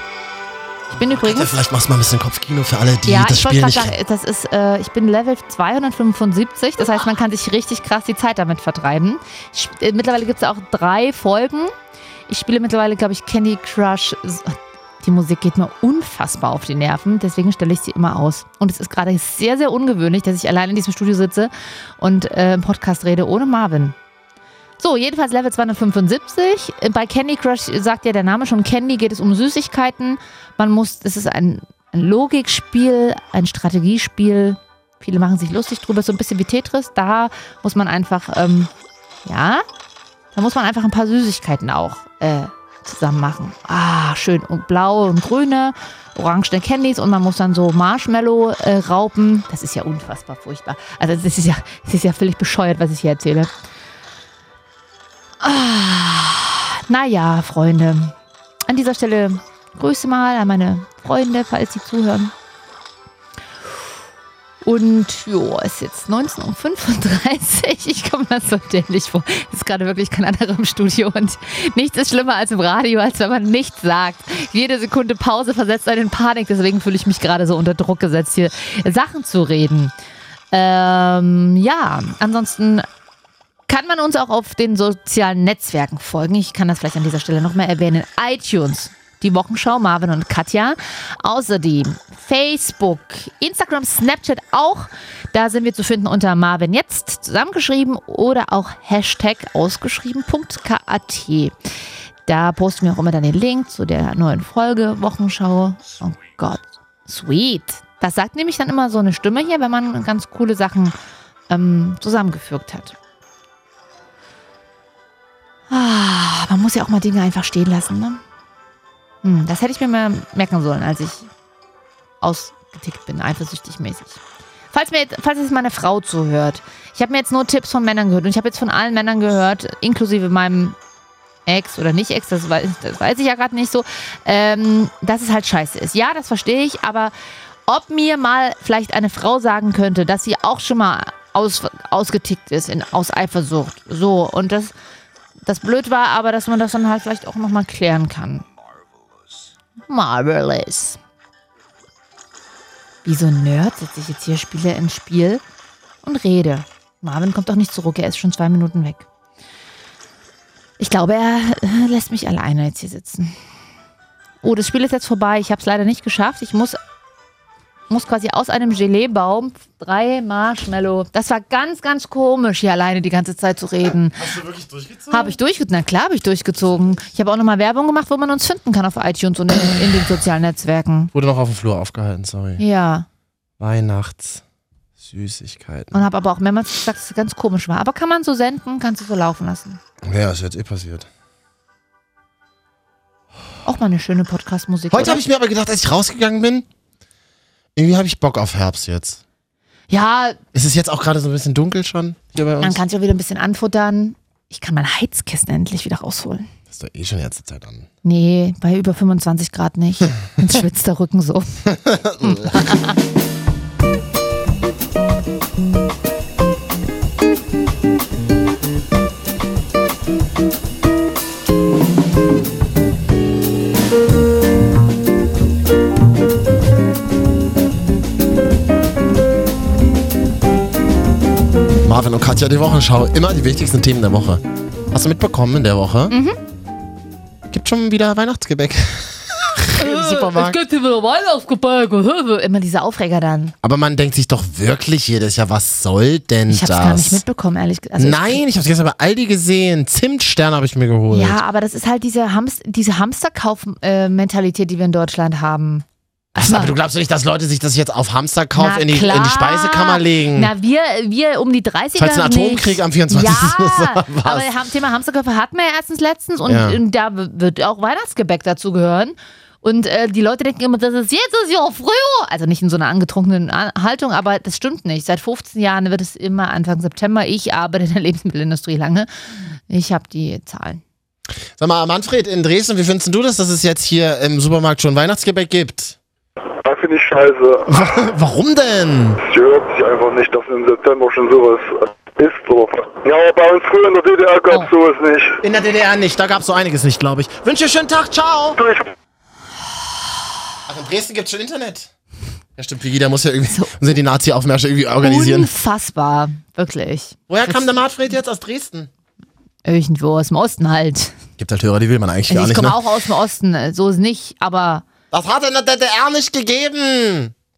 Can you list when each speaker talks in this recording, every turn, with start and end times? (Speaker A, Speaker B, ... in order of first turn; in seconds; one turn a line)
Speaker A: 0.9-3.9
Speaker B: 0.9-1.5
Speaker B: 3.0-11.7
Speaker B: 12.3-23.9
Speaker B: 24.8-38.7
Speaker B: 39.2-39.6
Speaker B: 40.3-53.5
Speaker B: 55.4-58.1
Speaker B: 58.7-62.3
Speaker B: 64.6-79.9
Speaker B: 80.5-82.8
Speaker B: 83.7-101.5
Speaker B: 102.2-111.0
Speaker B: 111.5-113.0
Speaker B: 115.7-118.2
Speaker B: 119.2-121.3
Speaker B: 122.2-124.2
Speaker B: 124.7-130.8
Speaker B: 131.4-137.1
Speaker B: 137.7-144.7
Speaker B: 145.4-148.4
Speaker B: 149.9-151.0
Speaker B: 153.0-155.4
Speaker B: 156.0-159.1
Speaker B: 160.8-163.3
Speaker B: 164.4-166.8
Speaker B: 167.9-174.3
Speaker A: 174.2-175.4
Speaker B: 175.1-181.1
Speaker A: 176.6-177.1
Speaker A: 181.1-182.6
Speaker B: 182.6-183.1
Speaker A: 183.6-184.4
Speaker A: 185.0-186.0
Speaker B: 185.9-189.8
Speaker A: 190.0-191.1
Speaker B: 193.6-195.2
Speaker A: 194.9-196.7
Speaker A: 197.8-199.2
Speaker B: 199.9-200.4
Speaker A: 200.5-202.8
Speaker B: 202.6-206.5
Speaker A: 206.7-207.9
Speaker B: 208.0-211.6
Speaker A: 211.7-212.7
Speaker B: 212.2-213.0
Speaker A: 231.8-236.1
Speaker B: 236.1-236.4
Speaker A: 237.5-240.6
Speaker B: 239.7-243.5
Speaker A: 243.6-247.2
Speaker B: 246.5-248.4
Speaker A: 248.0-251.4
Speaker B: 251.1-255.8
Speaker A: 256.3-260.5
Speaker B: 256.4-256.7
Speaker B: 258.6-280.8
Speaker A: 262.0-264.5
Speaker A: 266.4-266.8
Speaker A: 281.6-285.9
Speaker C: 286.6-287.7
Speaker A: 287.7-289.2
Speaker C: 289.2-295.4
Speaker A: 295.4-298.6
Speaker C: 298.6-298.9
Speaker A: 300.7-301.9
Speaker A: 302.6-305.5
Speaker B: 305.0-307.2
Speaker A: 307.3-308.9
Speaker B: 309.6-311.2
Speaker A: 311.4-312.8
Speaker B: 312.3-314.8
Speaker A: 315.1-317.3